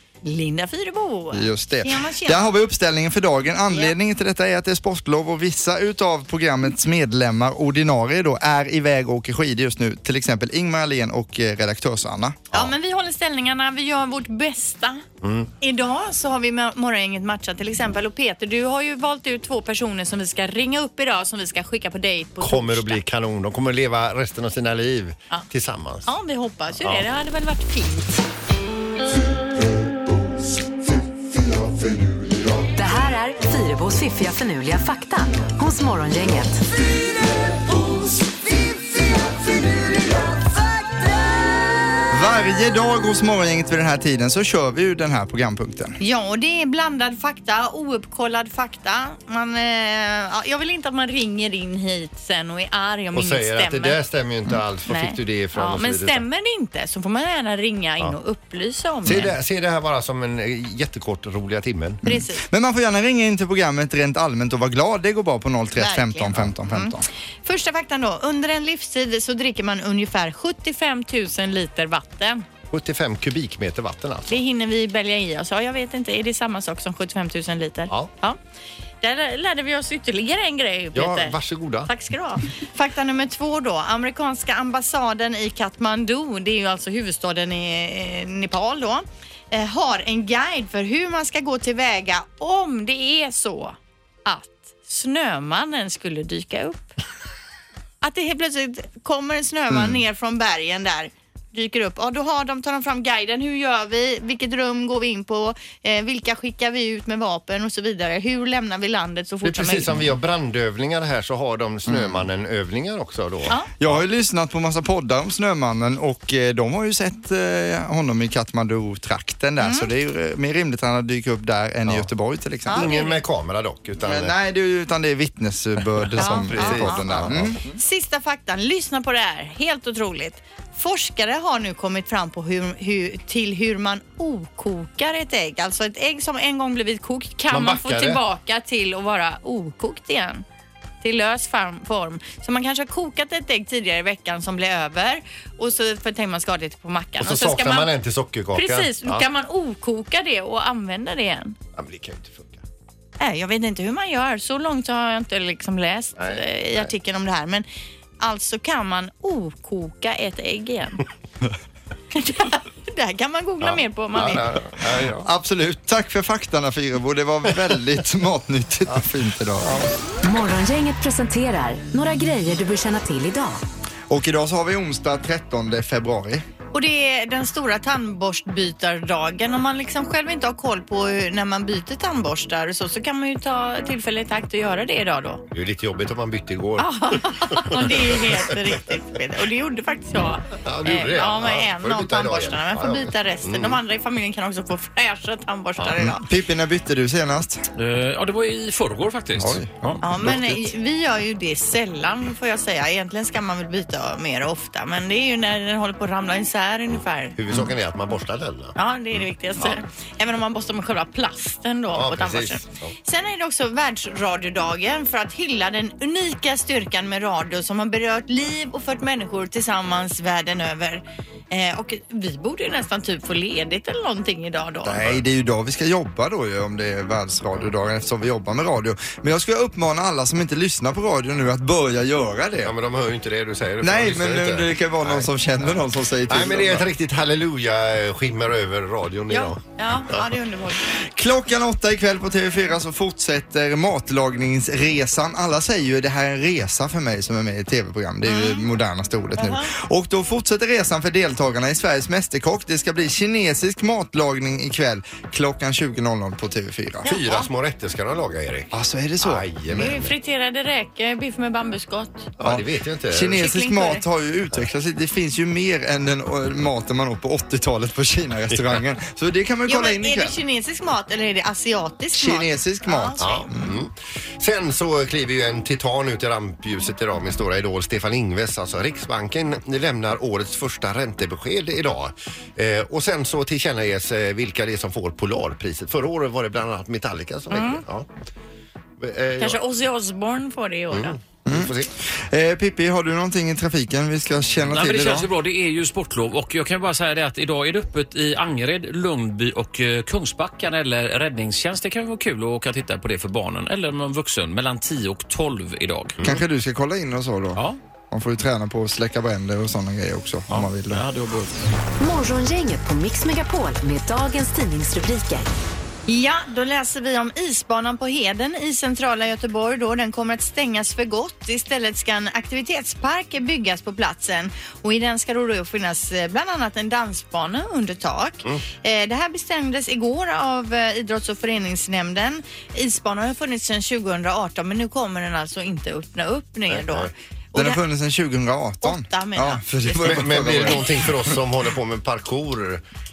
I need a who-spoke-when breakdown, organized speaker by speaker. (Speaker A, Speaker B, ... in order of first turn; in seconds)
Speaker A: 0.2-2.5, 12.5-15.0, 15.6-23.0, 26.0-28.2, 46.0-54.0, 54.9-59.3, 62.0-62.4, 65.8-72.4, 74.3-78.4, 79.0-96.9, 98.0-109.9, 119.6-119.9, 122.7-123.2, 126.2-127.0, 127.7-140.4, 141.0-147.9, 148.5-151.6, 153.2-157.7, 158.2-161.0, 162.1-164.4, 176.7-185.4, 186.8-196.2, 200.0-207.3, 208.7-225.0, 239.3-240.9, 248.2-248.7, 249.4-249.7, 259.7-262.3, 263.3-264.0, 269.7-273.4, 287.5-287.8, 289.4-291.2, 316.1-337.8, 338.8-340.8
Speaker B: 1.3-12.4, 42.1-46.0, 62.0-67.0, 111.8-112.3, 113.8-122.9, 124.0-127.7, 165.0-169.9, 174.1-176.4, 196.0-197.7, 199.4-200.7, 224.8-232.7, 233.8-236.9, 240.9-257.5, 258.7-259.4, 262.4-270.4, 272.1-273.8, 291.5-295.3, 306.2-311.0, 337.5-341.4
Speaker C: 15.2-15.5, 22.4-26.1, 53.1-56.2, 59.0-62.0, 72.7-74.4, 80.9-81.9, 109.4-114.0, 122.7-124.3, 126.1-127.6, 137.5-138.2, 147.2-149.2, 151.7-152.6, 156.2-156.8, 163.6-165.2, 185.5-188.6, 190.6-193.8, 195.8-196.1, 207.3-208.7, 211.9-212.9, 232.6-240.3, 257.1-260.1, 262.4-263.4, 268.5-268.8, 273.2-288.1, 289.0-289.6, 290.9-291.9, 336.7-337.1, 340.0-342.8
Speaker D: 32.7-36.6, 170.2-173.6, 312.0-315.5
Speaker E: 197.8-200.0, 294.7-306.2, 310.5-311.6